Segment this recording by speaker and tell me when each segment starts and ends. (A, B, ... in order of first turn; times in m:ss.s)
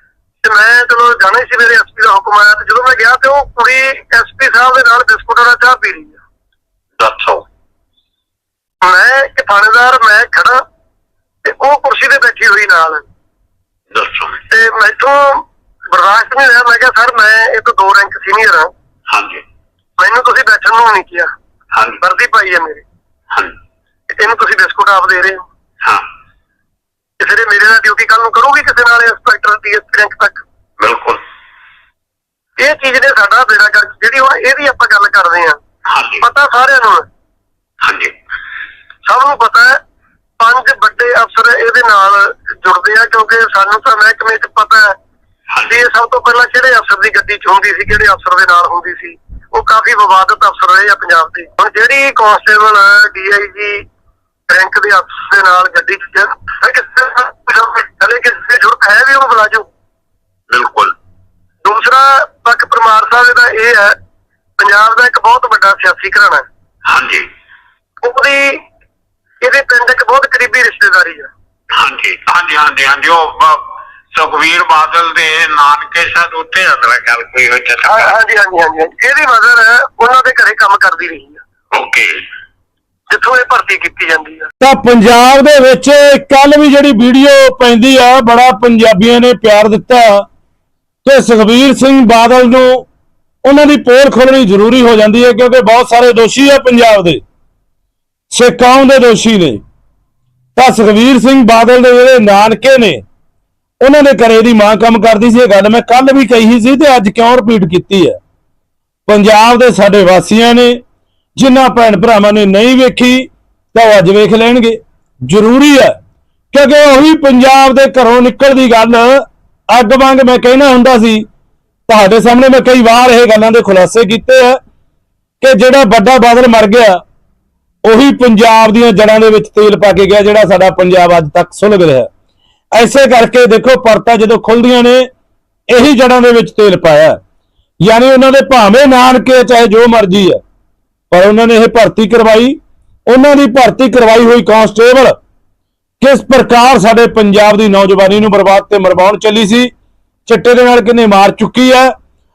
0:00.4-0:06.2 A
0:07.0-0:07.4 B
0:08.8-0:10.6 A
0:11.4-0:13.0 A
0:13.9-0:14.4 B
0:14.5-0:18.7 A
0:19.1-0:19.4 B
0:20.0-0:21.3 A
0:21.7-0:22.0 B
0:22.0-0:22.8 A
0:24.1-0:25.4 A
0:27.2-0:30.4 A
0:30.8-0:31.2 B
0:32.6-0:35.6 A
0:35.9-0:36.2 B
0:36.2-0:37.1 A
0:37.8-0:38.1 B
0:39.1-0:39.8 A
0:40.4-0:44.9 A
0:45.5-0:45.8 B
0:45.7-0:53.8 A
0:54.5-0:59.6 A
1:00.5-1:00.9 B
1:01.6-1:03.9 A
1:04.6-1:06.4 A
1:06.9-1:07.3 B
1:08.0-1:08.6 A
1:09.4-1:11.3 A
1:11.7-1:13.6 B
1:14.1-1:18.1 B
1:17.8-1:21.4 A
1:21.7-1:22.2 B
1:23.1-1:24.5 A
1:24.6-1:30.2 C
1:31.0-1:32.8 C
1:33.4-1:37.2 C
1:38.3-1:39.6 C
1:40.6-1:43.0 C
1:43.8-1:48.2 C
1:49.1-1:50.8 C
1:51.4-1:55.9 C
1:56.5-2:01.2 C
2:01.9-2:04.6 C
2:05.4-2:07.0 C
2:07.8-2:12.1 C
2:12.7-2:15.1 C
2:15.7-2:17.2 C
2:17.8-2:20.4 C
2:21.1-2:25.2 C
2:26.0-2:29.7 C
2:30.2-2:31.9 C